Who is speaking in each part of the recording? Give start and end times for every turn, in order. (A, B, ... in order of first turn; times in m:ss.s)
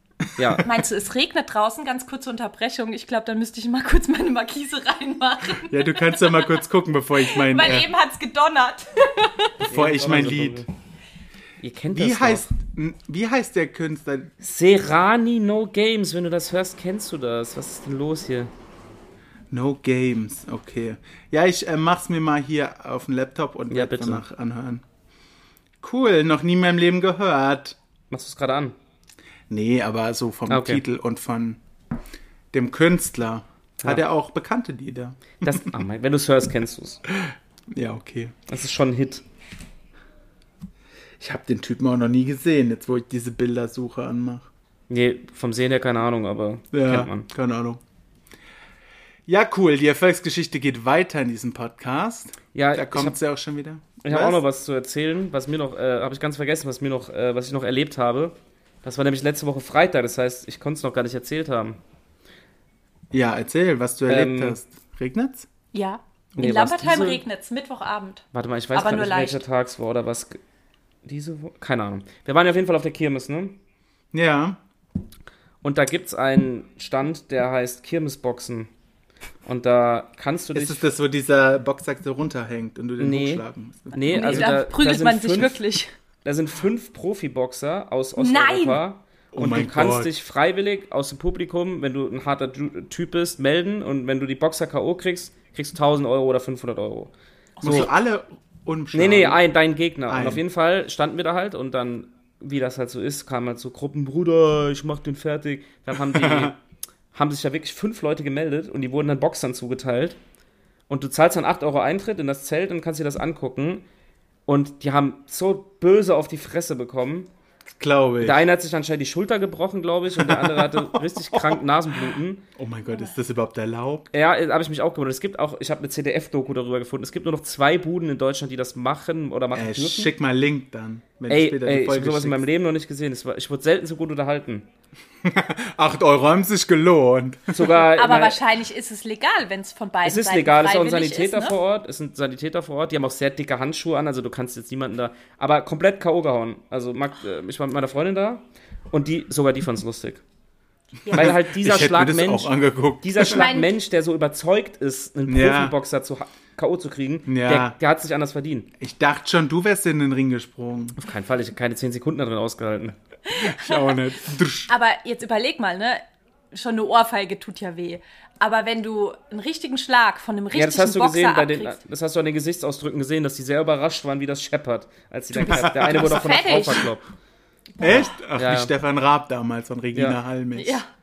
0:00.4-0:00.7 A
0:00.6-0:06.5 B
0:05.7-0:07.9 C
0:07.2-0:09.5 B
0:09.6-0:10.7 A
0:09.6-0:10.6 C
0:11.6-0:12.5 A
0:11.9-0:14.3 C
0:14.4-0:18.5 A
0:19.5-0:24.8 C
0:23.7-0:24.2 A
0:25.8-0:27.8 C
0:28.1-0:28.8 A
0:29.5-0:31.6 C
0:30.5-0:30.8 A
0:32.5-0:35.7 C
0:35.4-0:37.0 A
0:37.1-0:38.3 C
0:38.5-0:39.2 A
0:41.2-0:44.5 C
0:44.9-0:47.3 A
0:46.7-0:47.8 C
0:49.3-0:54.4 C
0:52.5-0:53.2 A
0:54.0-1:01.8 A
1:03.1-1:05.5 C
1:04.1-1:04.6 A
1:05.7-1:09.4 B
1:06.4-1:07.2 A
1:08.3-1:10.4 A
1:11.0-1:13.6 A
1:14.1-1:14.6 C
1:15.6-1:18.7 A
1:19.4-1:20.9 A
1:20.5-1:24.5 C
1:23.0-1:25.6 A
1:24.1-1:25.9 B
1:26.2-1:37.9 A
1:28.2-1:28.8 B
1:29.3-1:30.1 C
1:37.6-1:39.4 C
1:38.9-1:46.6 A
1:40.1-1:40.4 C
1:46.1-1:46.5 C
1:47.1-1:50.2 A
1:50.9-1:53.9 A
1:54.4-1:57.3 A
1:57.7-1:58.4 C
1:58.2-2:02.4 A
2:00.2-2:01.6 C
2:02.6-2:04.1 C
2:04.1-2:10.1 A
2:09.5-2:12.4 C
2:11.3-2:14.7 A
2:15.2-2:17.6 C
2:17.5-2:18.4 A
2:17.9-2:21.6 B
2:20.0-2:30.2 A
2:31.1-2:33.4 C
2:31.1-2:38.7 A
2:33.2-2:33.7 B
2:35.3-2:35.7 C
2:37.3-2:37.8 C
2:38.8-2:41.0 C
2:41.0-2:43.0 A
2:43.3-2:44.0 B
2:43.3-2:44.7 C
2:44.7-2:51.8 B
2:50.5-2:57.0 A
2:55.3-2:56.2 C
2:55.5-2:56.9 B
2:57.8-3:00.8 C
2:58.4-2:58.7 A
3:00.5-3:00.9 B